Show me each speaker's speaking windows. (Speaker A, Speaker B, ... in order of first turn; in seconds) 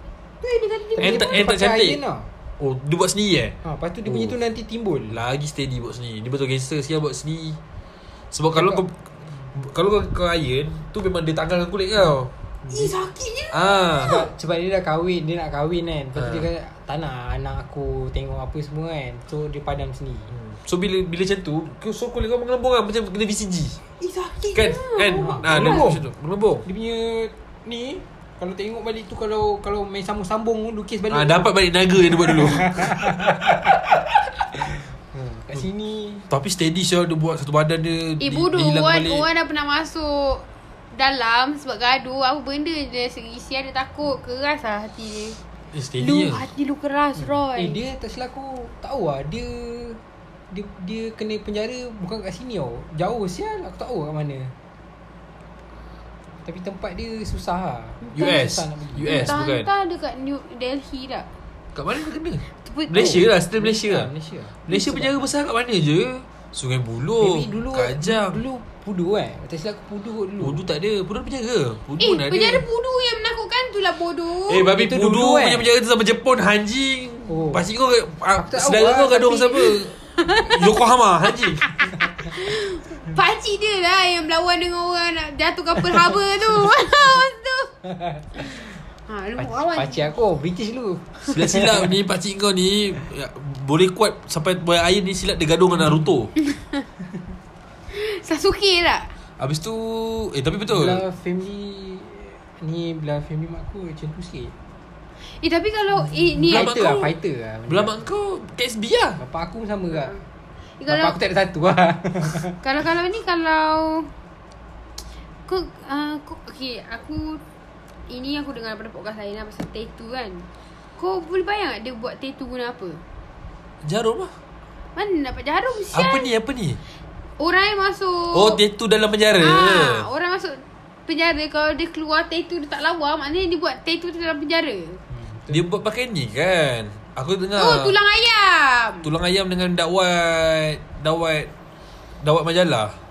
Speaker A: 0.4-1.3, 12.7-14.2, 24.1-25.8, 38.2-45.4, 46.0-47.8, 59.0-61.3, 62.6-63.2, 72.0-74.7, 80.2-80.8, 81.6-87.8, 88.3-90.1, 96.5-96.8, 97.9-99.1, 105.4-106.8, 110.8-111.2, 112.6-114.1, 115.5-117.4, 118.1-123.0, 125.0-126.3, 127.4-128.6, 129.4-135.0, 137.6-139.1
Speaker B: 1.0-2.3, 3.6-5.2, 8.5-8.8, 14.0-20.3, 25.2-26.0, 26.6-31.5, 32.1-33.8, 34.5-36.3, 47.2-50.0, 50.5-54.5, 56.4-59.4, 62.9-65.3, 67.2-70.6, 74.7-75.7, 77.3-77.6, 78.3-79.8, 89.4-91.9, 100.7-104.5, 106.3-107.9, 109.2-110.2, 110.9-112.6, 135.1-135.6
Speaker C: 1.0-2.0, 2.6-4.3, 5.1-7.6, 8.3-9.0, 9.5-12.3, 13.5-14.2, 16.2-16.4, 20.3-23.8, 24.5-26.6, 31.1-33.8, 36.3-39.2, 45.7-46.4, 58.1-59.7, 61.7-64.1, 64.7-68.4, 70.4-72.6, 74.5-81.6, 91.3-96.3, 99.4-101.0, 106.5-107.1, 107.7-109.2, 123.8-124.3, 125.9-126.8, 128.3-130.1, 135.5-137.9, 139.0-141.5, 142.2-142.9